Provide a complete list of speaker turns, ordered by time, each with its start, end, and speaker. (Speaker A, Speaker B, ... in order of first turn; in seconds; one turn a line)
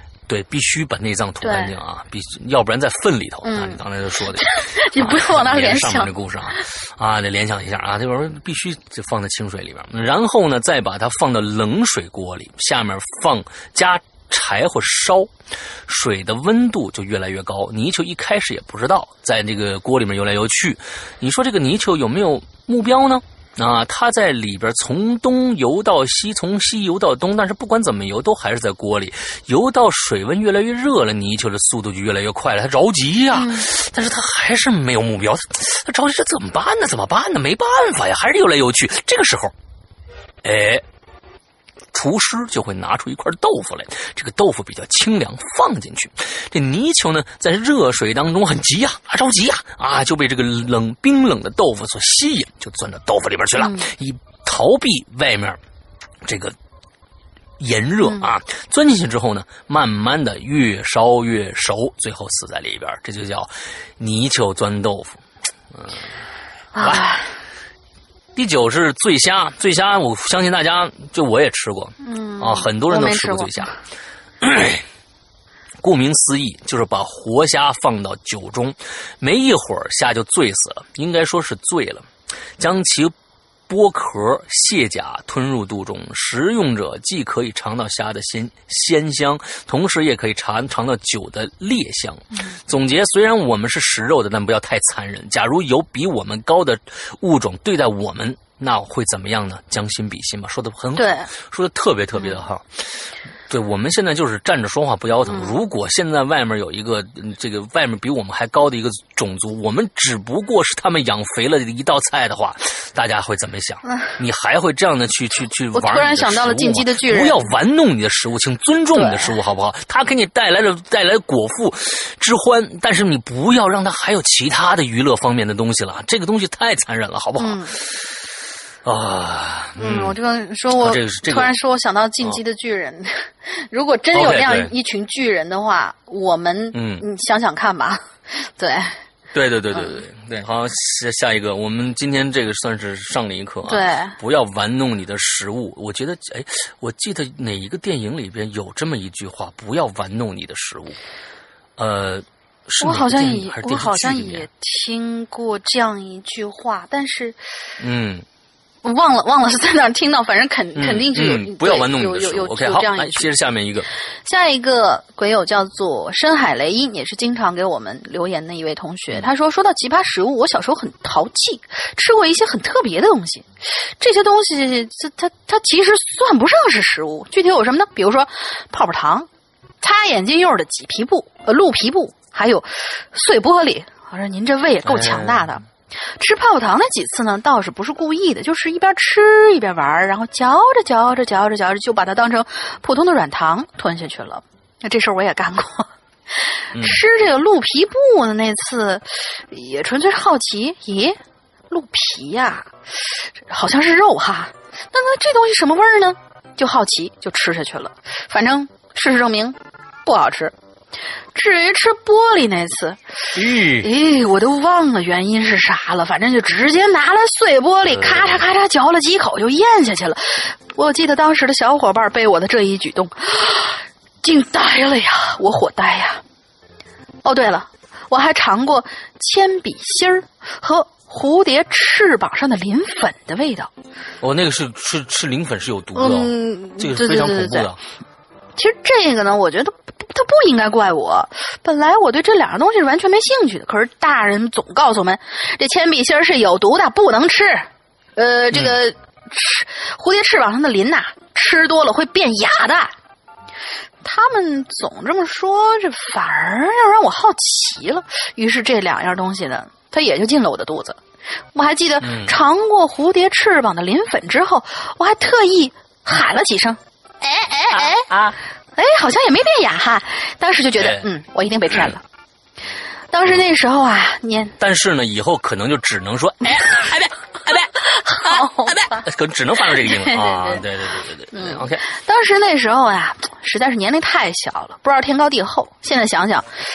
Speaker A: 0.3-15.3
Speaker B: 1.4-1.7
Speaker B: 3.4-3.8
Speaker B: 4.4-6.1
Speaker A: 15.8-39.5
Speaker B: 33.3-33.6
Speaker A: 40.4-40.8
Speaker A: 41.9-55.6
Speaker B: 53.6-53.9
Speaker A: 56.2-56.5
Speaker A: 57.6-65.2
Speaker A: 65.7-66.0
Speaker B: 66.7-67.3
Speaker A: 66.8-67.0
Speaker A: 68.3-73.7
Speaker B: 72.0-73.7
Speaker A: 74.4-74.8
Speaker A: 75.8-83.1
Speaker A: 83.7-102.9
Speaker B: 100.9-101.3
Speaker A: 103.5-128.1
Speaker B: 105.2-105.5
Speaker B: 115.7-117.4
Speaker B: 118.9-119.3
Speaker B: 127.4-127.7
Speaker A: 128.8-130.2
Speaker B: 129.8-138.9
Speaker A: 130.8-131.5
Speaker A: 134.1-134.7
Speaker A: 136.7-137.0
Speaker A: 139.3-151.0
Speaker B: 143.7-144.2
Speaker A: 151.8-154.5
Speaker B: 152.8-157.4
Speaker A: 157.8-158.2
Speaker B: 158.8-163.3
Speaker A: 160.8-163.8
Speaker B: 164.2-179.3
Speaker B: 179.8-185.6
Speaker A: 184.8-185.4
Speaker B: 186.2-201.2
Speaker A: 196.7-197.0
Speaker B: 201.7-202.7
Speaker B: 203.4-210.5
Speaker B: 211.3-213.0
Speaker A: 213.3-213.9
Speaker B: 213.7-226.2
Speaker A: 217.8-218.4
Speaker B: 227.2-233.7
Speaker A: 234.2-237.8
Speaker B: 235.9-237.7
Speaker B: 238.6-252.9
Speaker B: 254.0-261.0
Speaker B: 261.5-268.1
Speaker A: 262.0-262.4
Speaker A: 267.7-268.4
Speaker B: 268.8-272.0
Speaker A: 270.8-271.1
Speaker B: 273.1-274.6
Speaker A: 274.6-281.8
Speaker B: 277.8-279.1
Speaker B: 279.7-280.6
Speaker B: 281.3-286.5